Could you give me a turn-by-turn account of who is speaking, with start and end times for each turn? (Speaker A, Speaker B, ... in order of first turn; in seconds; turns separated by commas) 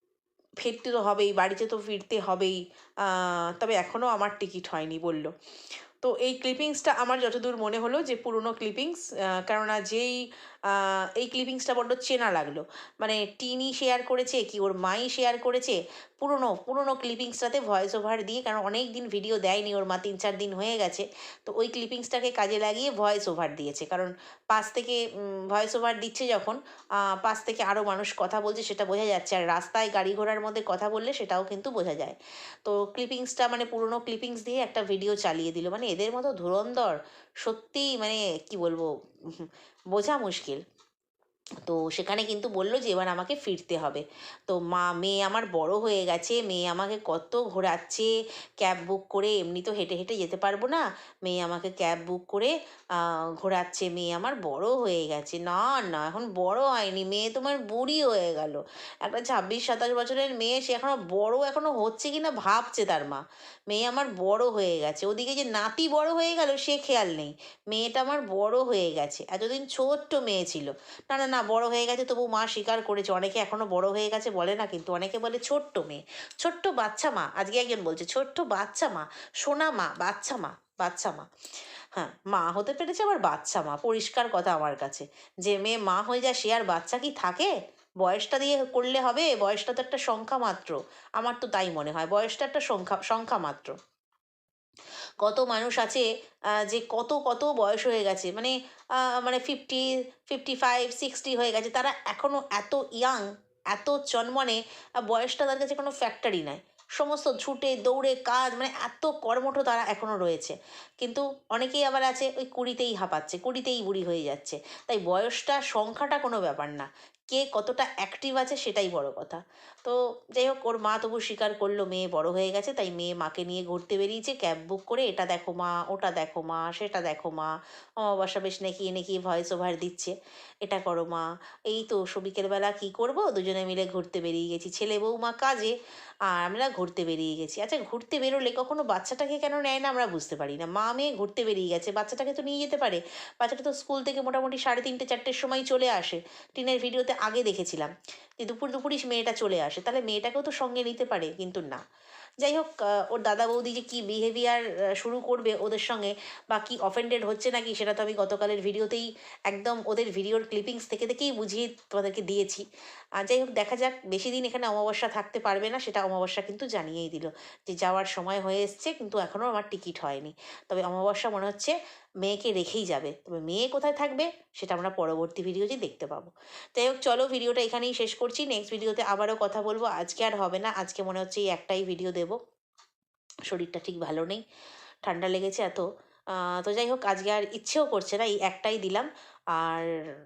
Speaker A: 0.6-5.3, Speaker A: 6.0-40.6, Speaker A: 41.6-81.3, Speaker A: 82.0-93.8, Speaker A: 95.2-96.1, Speaker A: 96.6-135.7, Speaker A: 136.3-151.8, Speaker A: 152.4-162.6, Speaker A: 163.2-182.4, Speaker A: 183.5-184.4, Speaker A: 185.1-189.9